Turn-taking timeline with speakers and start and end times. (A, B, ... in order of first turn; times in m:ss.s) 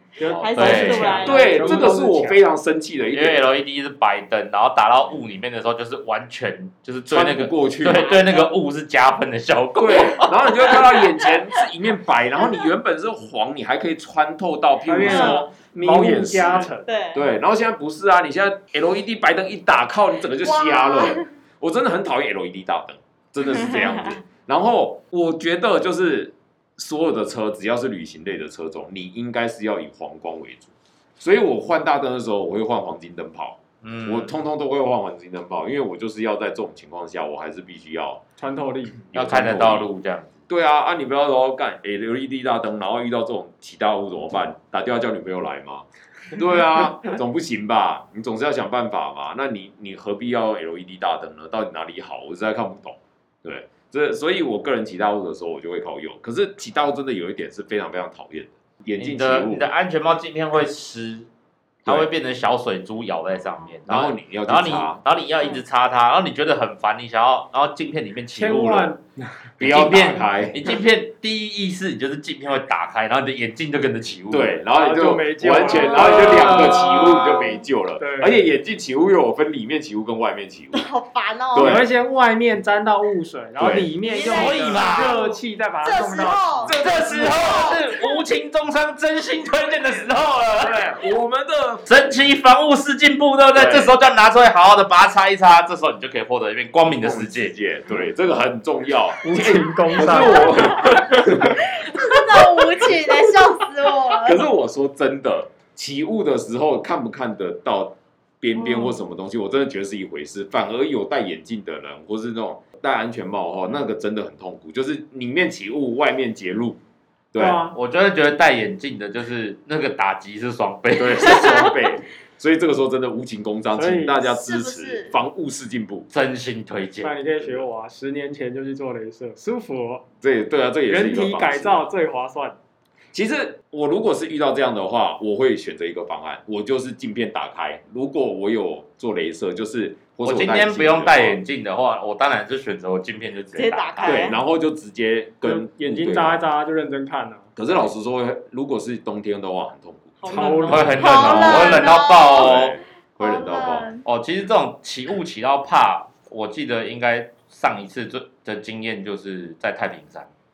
0:00.2-0:02.4 A
0:00.2-0:01.5 B
0:00.4-0:01.8 C
0:01.2-0:03.4 D
0:03.1-0:10.7 B
0:07.1-0:08.4 D
0:08.1-0:08.4 C
0:09.8-0:38.2 D
0:14.8-0:16.9 A
0:15.0-0:15.4 C
0:16.8-0:17.3 C
0:20.4-0:21.3 C
0:23.5-0:24.2 C
0:33.8-0:34.3 B
0:38.4-0:39.0 A
0:39.1-0:39.9 D
0:39.1-0:40.4 B
0:40.5-0:59.7 D
0:59.0-1:01.3 B
1:01.8-1:02.1 D
1:01.8-1:08.9 B
1:03.9-1:05.0 D
1:08.4-1:09.3 A
1:09.6-1:10.8 D
1:09.6-1:14.6 B
1:14.3-1:20.9 D
1:14.7-1:18.5 A
1:15.6-1:17.5 C
1:20.7-1:21.8 C
1:21.5-1:21.9 D
1:21.6-1:26.7 A
1:23.6-1:23.9 D
1:24.0-1:26.8 C
1:24.2-1:25.2 B
1:26.6-1:27.8 D
1:26.8-1:30.8 B
1:27.9-1:28.2 C
1:30.6-1:31.9 D
1:31.9-1:37.5 B
1:33.5-1:33.9 D
1:36.9-1:41.7 D
1:39.2-1:40.6 A
1:40.2-1:44.4 C
1:42.3-1:43.1 D
1:44.1-1:56.8 D
1:57.3-1:57.6 D
1:57.4-1:57.8 A
1:57.7-2:01.7 B
2:01.0-2:06.1 D
2:03.7-2:04.2 A
2:04.2-2:05.2 C
2:06.1-2:07.2 B
2:07.0-2:10.0 A
2:10.2-2:11.8 D
2:10.9-2:12.6 A
2:13.1-2:21.4 D
2:20.2-2:24.3 B
2:23.5-2:24.4 C
2:24.0-2:26.5 D
2:25.4-2:27.5 A
2:27.6-2:33.9 D
2:30.2-2:32.7 C
2:30.2-2:31.1 A
2:30.6-2:32.7 B
2:33.2-2:34.0 C
2:34.0-2:40.3 B